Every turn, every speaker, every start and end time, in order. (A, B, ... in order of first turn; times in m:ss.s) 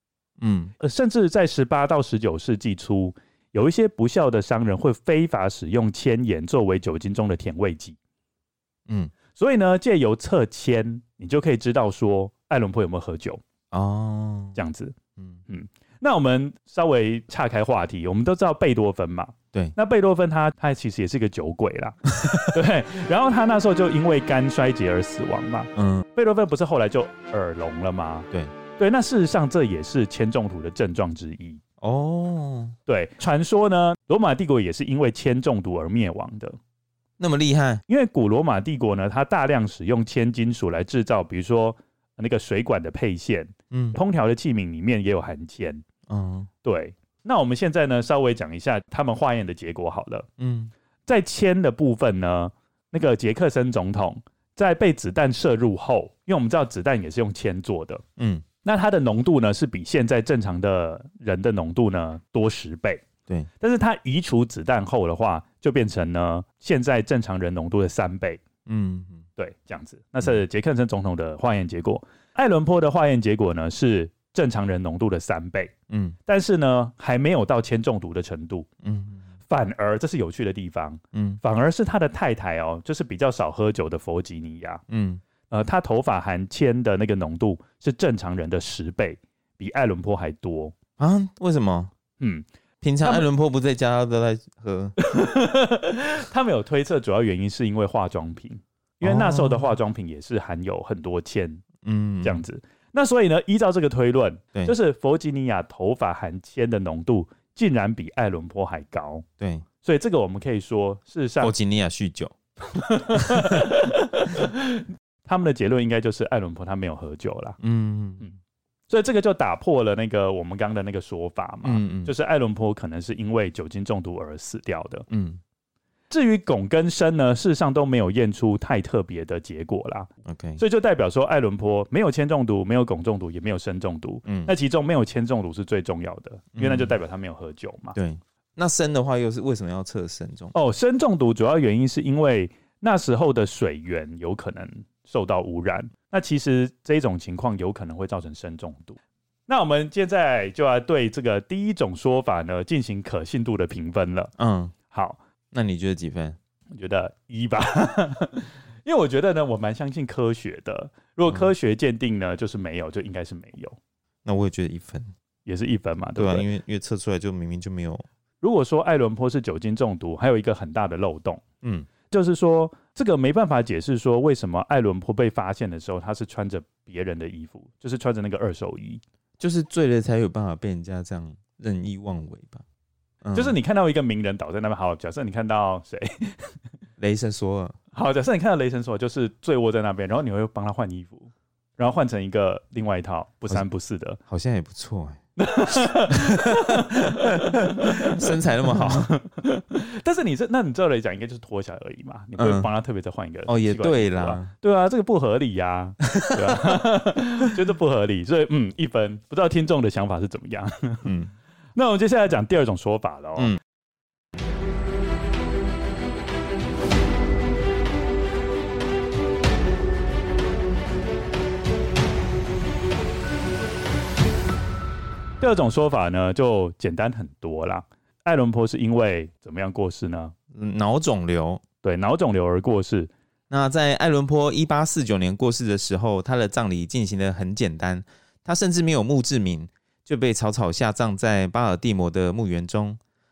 0:00.4-0:00.7 A
0:00.8-0:08.0 B
0:09.3-0:13.4 B
0:13.7-0:14.6 A
0:14.6-0:15.0 B
0:15.5-0:31.6 B
0:25.7-0:26.0 A
0:31.8-0:32.8 A
0:32.9-0:36.6 B
0:37.2-0:37.8 A
0:37.9-0:45.8 B
0:43.7-0:44.0 A
0:46.1-0:46.5 A
0:46.6-0:50.3 B
0:50.4-0:50.7 A
0:51.1-0:58.0 B
0:58.2-0:58.4 A
0:58.6-1:03.0 B
1:03.6-1:08.4 B
1:08.6-1:09.2 A
1:09.4-1:15.7 B
1:15.9-1:16.2 A
1:16.2-1:18.7 B
1:18.8-1:19.2 A
1:19.5-1:24.8 B
1:21.1-1:21.4 A
1:24.9-1:25.2 A
1:25.5-1:30.7 B
1:31.0-1:31.9 A
1:32.2-1:32.4 B
1:32.8-1:35.0 A
1:35.0-1:41.6 B
1:39.0-1:39.7 A
1:41.8-1:42.4 A
1:42.2-1:49.2 B
1:49.4-1:49.6 A
1:49.8-1:51.5 B
1:51.4-1:52.3 A
1:52.7-1:57.6 B
1:53.1-1:53.6 A
1:57.6-1:58.2 A
1:58.9-2:05.0 B
2:01.6-2:02.1 A
2:05.1-2:05.4 A
2:06.1-2:18.0 B
2:10.2-2:10.6 A
2:14.2-2:14.5 A
2:16.6-2:16.9 A
2:17.9-2:20.5 A
2:20.5-2:34.3 B
2:34.4-2:34.7 A
2:34.9-2:35.2 B
2:35.5-2:36.4 A
2:36.7-2:43.8 B
2:44.2-2:45.1 A
2:45.4-2:46.5 B
2:46.2-2:48.0 A
2:48.4-2:51.4 B
2:51.6-2:51.9 A
2:52.1-2:59.0 B
2:59.4-3:02.6 A
3:03.2-3:03.5 A
3:03.3-3:06.5 B
3:07.0-3:07.8 A
3:07.9-3:14.2 B
3:14.3-3:15.2 A
3:15.4-3:31.1 B
3:16.1-3:19.1 A
3:22.4-3:22.7 A
3:23.5-3:24.5 A
3:26.1-3:26.6 A
3:31.0-3:31.3 A
3:31.8-3:33.5 B
3:45.4-3:50.3 B
3:50.5-3:51.6 A
3:51.8-3:53.1 B
3:53.5-4:03.0 A